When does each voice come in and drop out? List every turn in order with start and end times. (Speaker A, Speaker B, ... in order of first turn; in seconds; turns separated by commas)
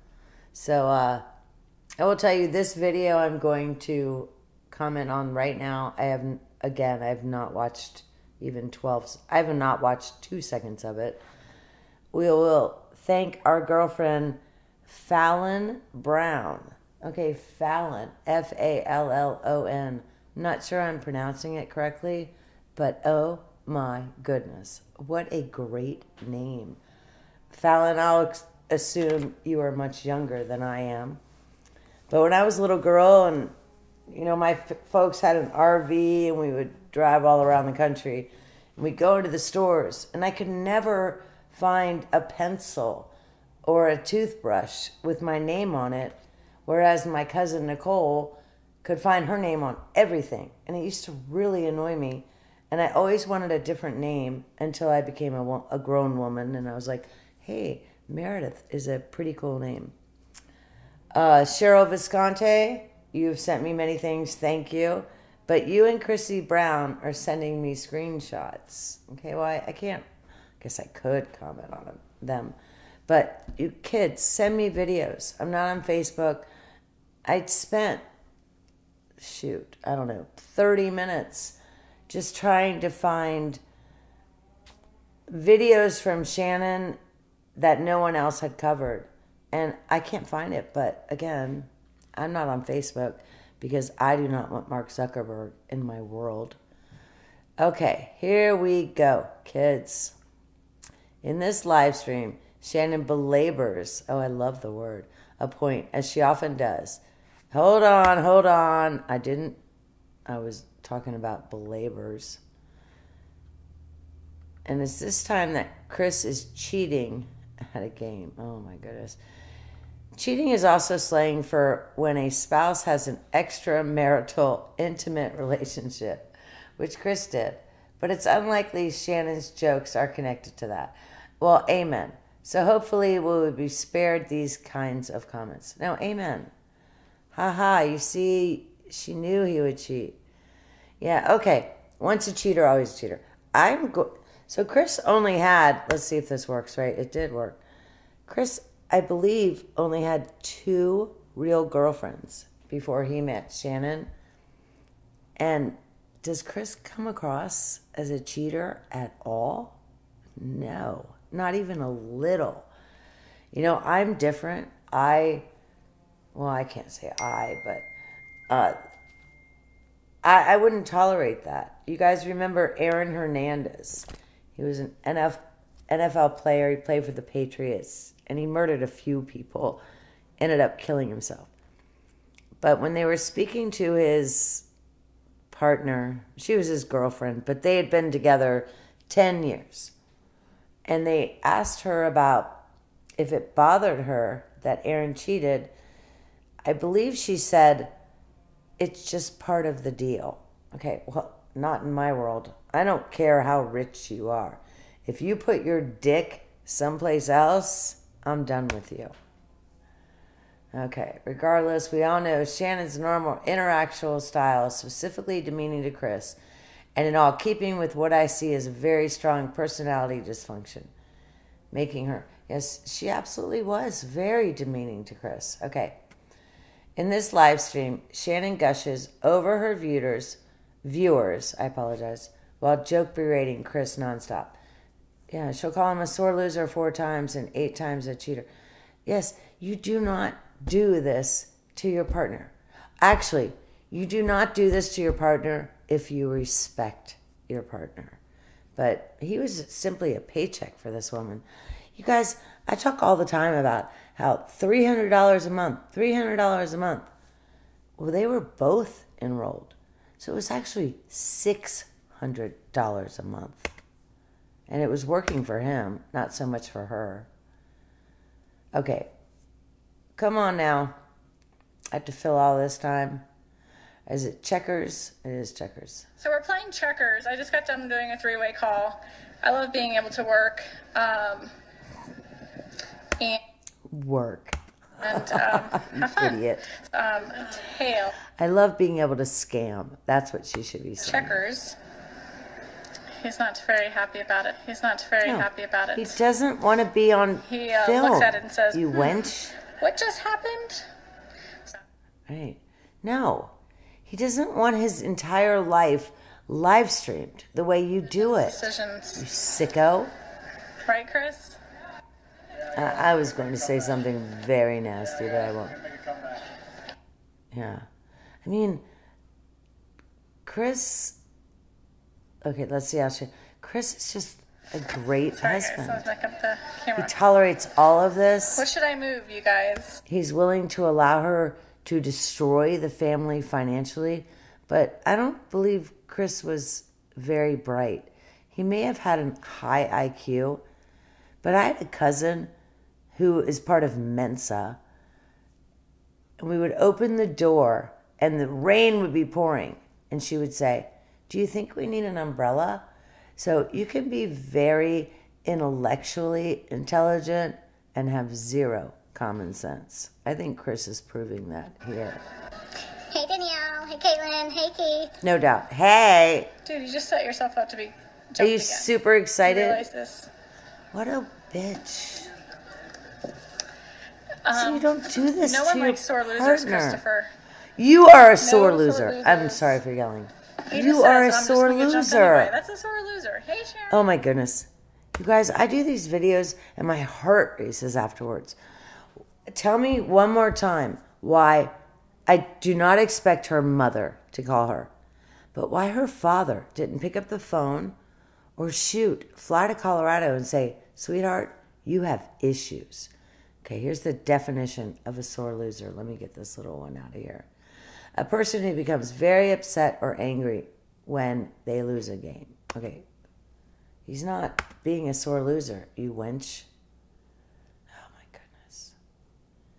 Speaker A: 0.5-1.2, Speaker A: 2.0-11.2, Speaker A: 12.1-26.8, Speaker A: 27.5-31.2, Speaker A: 32.1-33.5, Speaker A: 34.1-43.1, Speaker A: 43.6-59.9, Speaker A: 61.1-70.0, Speaker A: 70.6-76.5, Speaker A: 77.2-78.0, Speaker A: 79.2-81.6, Speaker A: 82.1-83.6, Speaker A: 85.3-87.0, Speaker A: 87.5-96.6, Speaker A: 97.6-100.2, Speaker A: 101.2-109.6, Speaker A: 110.3-112.4, Speaker A: 114.6-119.2, Speaker A: 120.1-136.5, Speaker A: 137.3-140.2, Speaker A: 141.0-147.6, Speaker A: 148.3-154.1, Speaker A: 155.4-159.8, Speaker A: 160.4-162.7, Speaker A: 163.5-165.4, Speaker A: 166.3-167.9, Speaker A: 168.5-168.8, Speaker A: 170.2-179.8, Speaker A: 180.4-181.5, Speaker A: 182.6-184.7, Speaker A: 185.5-189.9, Speaker A: 190.8-192.6, Speaker A: 193.2-195.7, Speaker A: 196.6-197.9, Speaker A: 198.8-209.1, Speaker A: 210.7-216.4, Speaker A: 216.9-220.9, Speaker A: 221.7-226.0, Speaker A: 226.9-234.6, Speaker A: 235.3-238.5, Speaker A: 239.0-248.2, Speaker A: 248.8-257.1, Speaker A: 258.0-263.7, Speaker A: 264.7-267.3, Speaker A: 268.7-269.1, Speaker A: 270.1-270.9, Speaker A: 271.9-273.2, Speaker A: 274.1-276.1, Speaker B: 276.2-281.5, Speaker A: 283.9-286.7, Speaker B: 285.0-288.2, Speaker A: 288.3-291.4, Speaker B: 291.0-291.8, Speaker B: 293.2-296.2, Speaker A: 295.2-299.6, Speaker B: 297.4-300.9, Speaker A: 302.3-308.6, Speaker B: 308.3-309.2, Speaker A: 309.1-310.1, Speaker B: 310.8-311.6, Speaker A: 312.7-315.8, Speaker A: 317.5-317.9, Speaker A: 318.4-318.8, Speaker A: 320.4-321.2, Speaker A: 322.4-326.0, Speaker B: 325.4-327.1, Speaker A: 326.9-328.6, Speaker B: 328.6-330.0, Speaker A: 330.1-340.6, Speaker A: 341.4-342.5, Speaker A: 343.1-344.8, Speaker A: 346.4-362.2, Speaker C: 363.1-365.1, Speaker A: 365.2-366.5, Speaker B: 366.6-368.9, Speaker A: 368.4-369.8, Speaker B: 369.4-370.3, Speaker A: 370.9-372.3, Speaker B: 374.4-377.3, Speaker A: 374.5-377.0, Speaker A: 377.8-382.5, Speaker B: 378.4-379.8, Speaker B: 380.7-384.0, Speaker A: 383.9-388.6, Speaker A: 389.5-391.7, Speaker A: 392.3-394.9, Speaker A: 395.5-397.9, Speaker A: 398.6-403.1, Speaker A: 403.6-407.5, Speaker A: 408.2-413.1, Speaker A: 414.1-416.7, Speaker A: 417.9-419.0